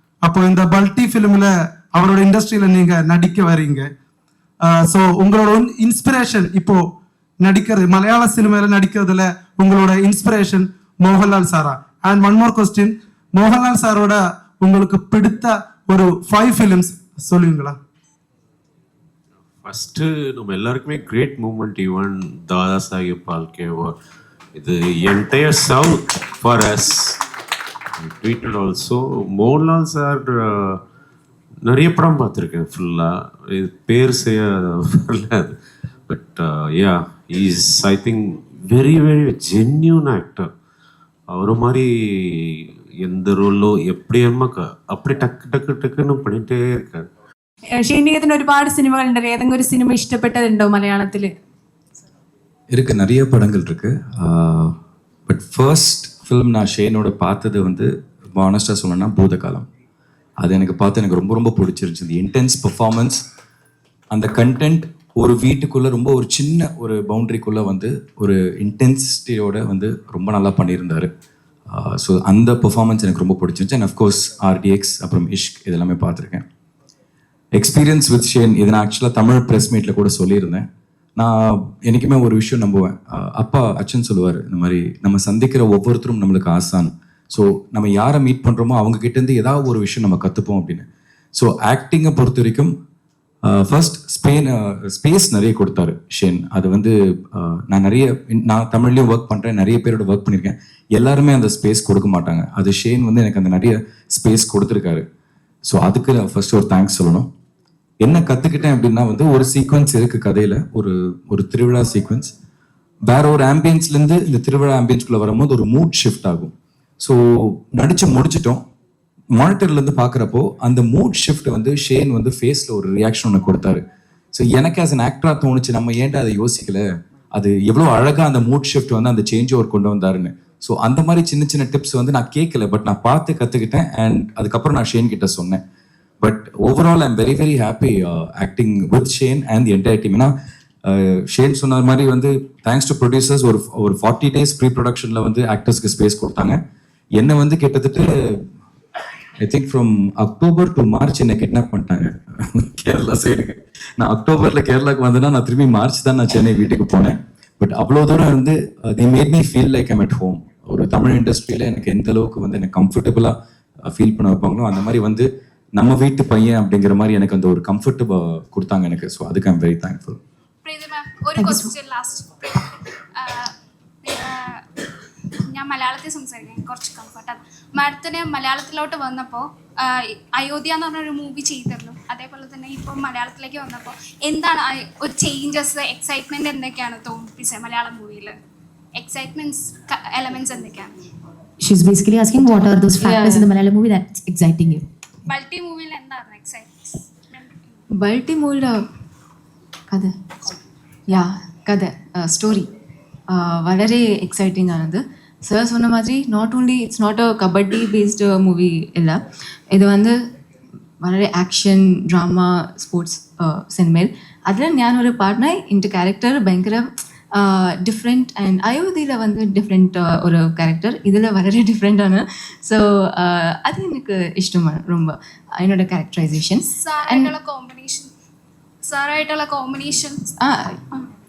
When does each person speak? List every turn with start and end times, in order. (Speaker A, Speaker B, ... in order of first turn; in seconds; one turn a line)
Speaker A: 0.3-3.9
Speaker A: 4.7-6.8
Speaker A: 7.5-17.8
Speaker B: 19.6-23.9
Speaker B: 24.6-27.2
Speaker B: 28.0-30.8
Speaker B: 31.6-35.5
Speaker B: 36.1-40.5
Speaker B: 41.3-47.1
Speaker C: 47.7-51.3
Speaker D: 52.7-54.8
Speaker D: 55.3-59.7
Speaker D: 60.4-63.2
Speaker D: 64.1-71.1
Speaker D: 71.7-76.5
Speaker D: 77.5-80.7
Speaker D: 81.2-92.7
Speaker D: 93.5-105.0
Speaker D: 105.6-107.3
Speaker D: 108.0-112.3
Speaker D: 113.0-118.6
Speaker D: 119.3-123.8
Speaker D: 124.3-135.6
Speaker D: 136.2-140.3
Speaker D: 140.8-146.6
Speaker D: 147.2-148.4
Speaker D: 149.4-170.2
Speaker E: 170.6-172.6
Speaker F: 171.4-171.7
Speaker E: 173.2-173.5
Speaker E: 174.0-174.6
Speaker E: 175.5-188.4
Speaker E: 189.0-191.0
Speaker F: 191.6-194.8
Speaker G: 193.1-193.5
Speaker E: 195.3-197.8
Speaker G: 198.0-198.8
Speaker G: 201.1-202.7
Speaker G: 203.3-210.2
Speaker G: 211.0-227.3
Speaker E: 226.8-228.1
Speaker E: 228.8-230.3
Speaker G: 230.4-231.0